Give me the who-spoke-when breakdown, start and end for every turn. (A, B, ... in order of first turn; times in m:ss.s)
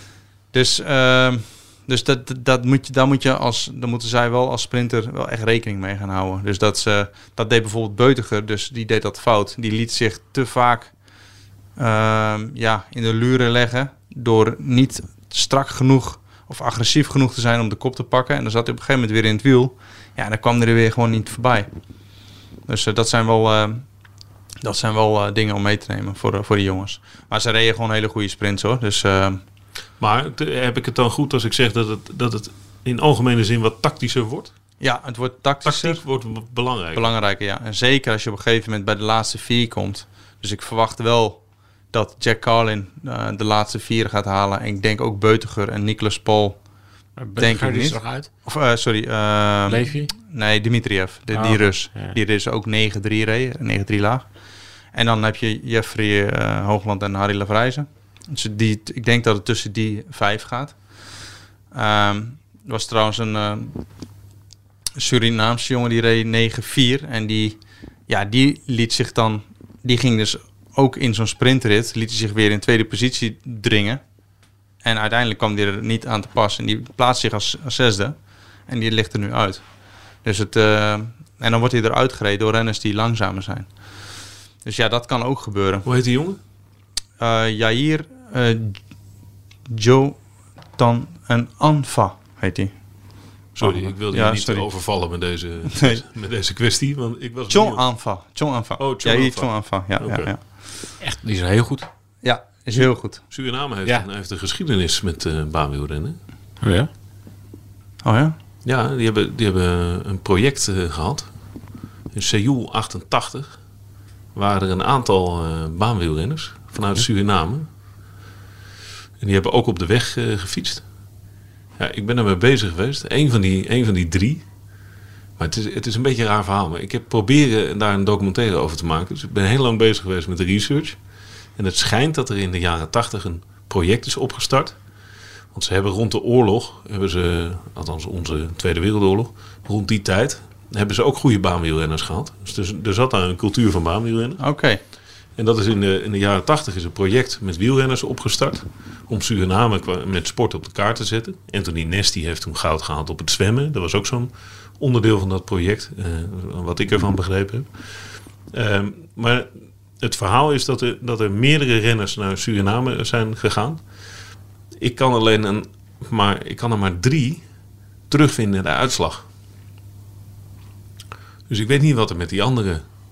0:00.5-0:10.9 A
0:11.8-0:21.7 A
0:22.7-0:23.8 A
0:24.6-0:29.4 A
0:30.0-0:34.5 B
0:34.8-0:36.0 A
0:35.6-0:37.1 B
0:36.9-0:41.4 A
0:41.9-0:46.6 A
0:47.2-0:48.3 C
0:47.4-0:54.3 A
0:49.7-0:50.1 C
0:51.3-0:52.2 C
0:54.9-1:00.8 A
1:01.7-1:03.8 A
1:05.0-1:14.0 A
1:14.8-1:18.2 A
1:18.7-1:19.6 A
1:20.2-1:23.7 A
1:24.6-1:25.9 A
1:25.8-1:26.4 B
1:27.2-1:28.8 A
1:29.7-1:30.2 A
1:30.7-1:32.7 A
1:33.6-1:37.8 B
1:33.6-1:34.6 A
1:35.7-1:36.0 A
1:37.5-1:40.4 A
1:38.8-1:40.3 B
1:41.0-1:41.9 C
1:42.2-1:43.2 A
1:42.7-1:46.2 B
1:46.6-1:46.9 C
1:48.0-1:48.4 A
1:48.6-1:51.3 B
1:52.1-1:53.6 B
1:54.3-1:57.7 B
1:59.2-2:00.8 B
2:01.8-2:04.4 B
2:05.4-2:11.0 B
2:11.6-2:14.8 B
2:15.5-2:24.4 B
2:24.4-2:24.8 A
2:25.4-2:43.8 B
2:44.8-2:47.4 B
2:48.1-2:49.2 B
2:51.5-2:52.8 B